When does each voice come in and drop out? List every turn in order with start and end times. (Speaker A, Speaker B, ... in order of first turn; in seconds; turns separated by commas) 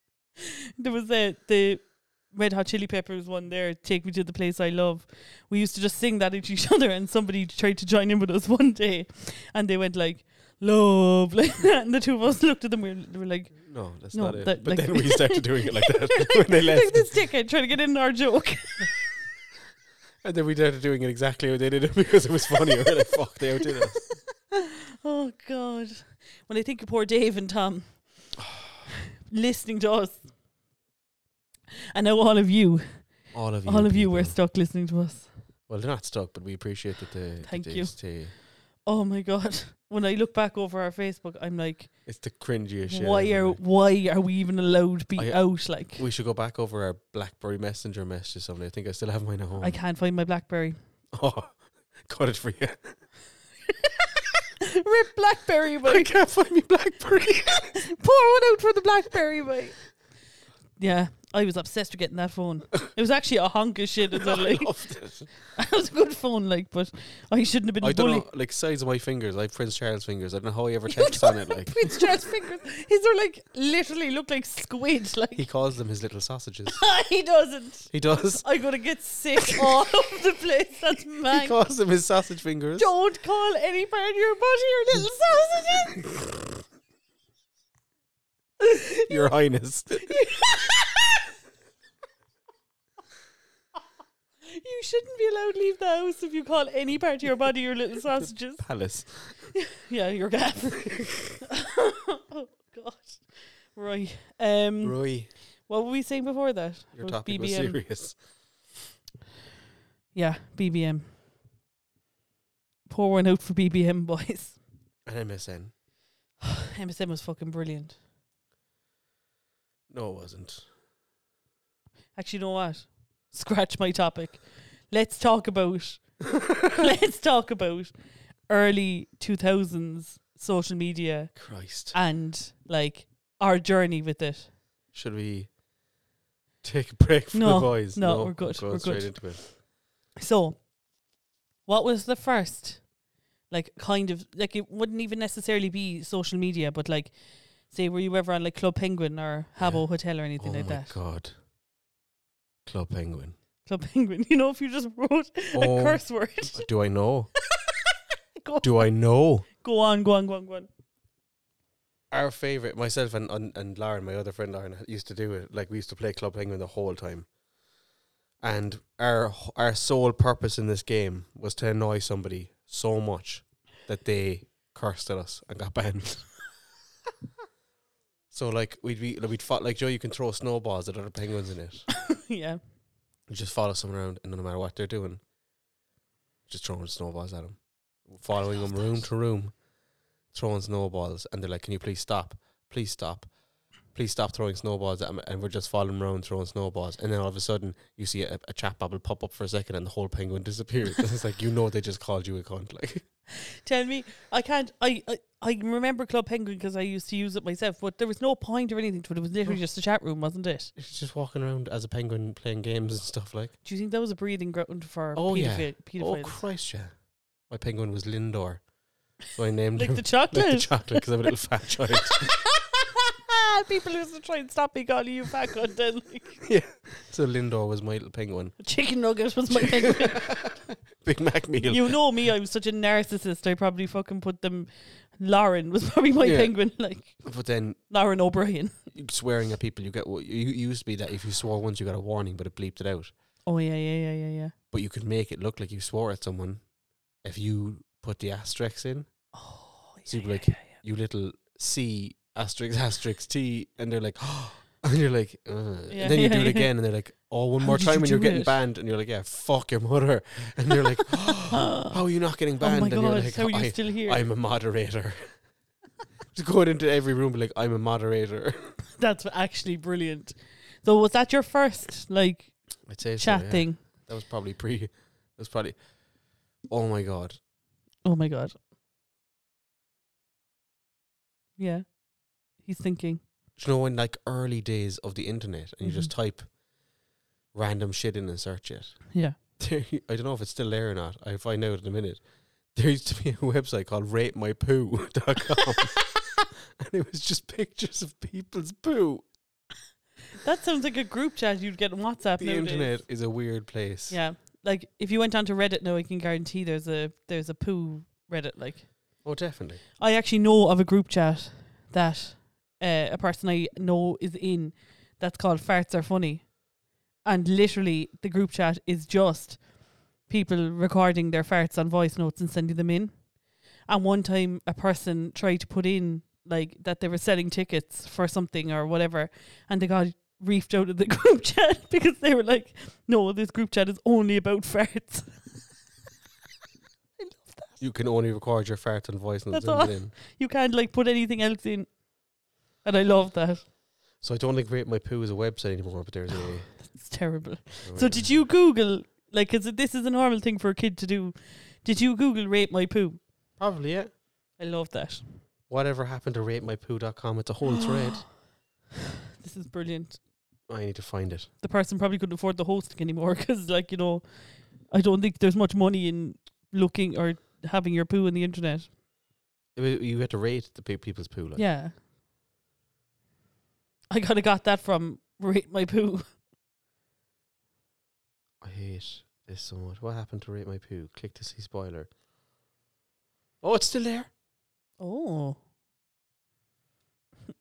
Speaker A: 0.4-19.0, Speaker B: 13.6-17.1, Speaker B: 20.2-24.0, Speaker A: 24.0-28.4, Speaker A: 29.3-30.3, Speaker A: 31.9-35.3, Speaker B: 33.3-34.4, Speaker B: 35.7-38.3, Speaker A: 37.4-42.0, Speaker B: 42.1-43.6, Speaker A: 42.9-46.0, Speaker B: 45.2-49.8, Speaker A: 49.6-50.8, Speaker B: 51.1-53.0, Speaker A: 54.6-56.1, Speaker B: 55.9-57.8, Speaker A: 57.6-59.8, Speaker A: 60.8-64.7, Speaker B: 64.1-65.3, Speaker A: 65.5-68.3, Speaker B: 67.8-72.2, Speaker A: 70.9-75.5, Speaker B: 75.4-76.8, Speaker A: 76.7-81.6, Speaker B: 77.9-78.5, Speaker B: 81.3-82.9, Speaker A: 82.8-86.2, Speaker A: 88.6-89.3, Speaker B: 89.1-90.2, Speaker A: 90.0-91.0, Speaker A: 94.5-107.8, Speaker B: 98.2-99.5, Speaker B: 104.8-105.3, Speaker B: 107.0-108.2, Speaker A: 110.1-111.1, Speaker A: 112.9-114.6, Speaker B: 115.0-115.7, Speaker A: 116.4-118.0, Speaker B: 119.9-120.7, Speaker A: 122.2-127.9, Speaker A: 128.5-134.5, Speaker B: 131.3-132.0, Speaker B: 134.9-135.6, Speaker B: 136.6-139.5, Speaker A: 137.3-139.6, Speaker A: 140.2-140.7, Speaker A: 141.7-142.9, Speaker A: 143.5-151.0, Speaker B: 149.6-151.3, Speaker B: 152.7-153.4, Speaker A: 153.7-156.7, Speaker B: 155.5-157.3, Speaker A: 158.4-158.9, Speaker B: 158.6-159.5, Speaker A: 159.5-160.7, Speaker B: 162.1-167.3, Speaker B: 168.4-176.3, Speaker B: 178.3-181.9, Speaker A: 181.9-182.6, Speaker B: 183.3-185.2, Speaker B: 186.5-189.6, Speaker B: 190.3-193.3, Speaker B: 193.8-203.0, Speaker A: 203.5-210.7, Speaker B: 210.8-213.5, Speaker A: 213.6-216.4, Speaker B: 215.2-218.7, Speaker B: 219.2-222.3, Speaker A: 219.8-221.3, Speaker A: 222.0-226.4, Speaker B: 226.4-228.6, Speaker A: 228.6-230.4, Speaker B: 229.5-232.0, Speaker A: 231.7-237.3, Speaker B: 236.2-237.8, Speaker A: 237.9-238.8, Speaker B: 238.9-243.1, Speaker A: 243.4-244.5, Speaker B: 244.7-246.6, Speaker B: 247.2-249.1, Speaker A: 249.3-250.8, Speaker B: 250.1-265.4, Speaker A: 255.9-256.7, Speaker A: 257.6-258.6, Speaker A: 261.5-261.9, Speaker A: 262.6-264.2, Speaker B: 266.3-268.7, Speaker A: 269.0-273.8, Speaker B: 272.9-276.0, Speaker B: 276.6-277.4, Speaker A: 278.0-278.6, Speaker A: 281.6-283.2, Speaker B: 283.6-286.6, Speaker A: 285.8-286.1, Speaker B: 287.5-296.1, Speaker B: 296.8-299.3, Speaker A: 300.4-303.0, Speaker B: 302.4-304.2, Speaker A: 304.1-309.2, Speaker B: 309.2-309.8, Speaker A: 310.0-316.6, Speaker A: 317.2-335.5, Speaker A: 337.2-337.8, Speaker B: 337.8-340.2, Speaker A: 339.5-342.1, Speaker A: 342.8-343.7, Speaker B: 344.2-346.9, Speaker A: 346.8-353.2, Speaker B: 347.8-348.4, Speaker B: 353.6-354.1, Speaker A: 354.6-355.3, Speaker B: 355.7-358.3, Speaker A: 357.8-358.2, Speaker A: 359.4-360.2, Speaker B: 360.7-361.5, Speaker A: 361.6-368.9, Speaker B: 369.8-371.7, Speaker A: 371.6-371.9, Speaker A: 374.1-376.2, Speaker B: 378.6-382.1, Speaker B: 383.6-384.3, Speaker A: 385.0-385.6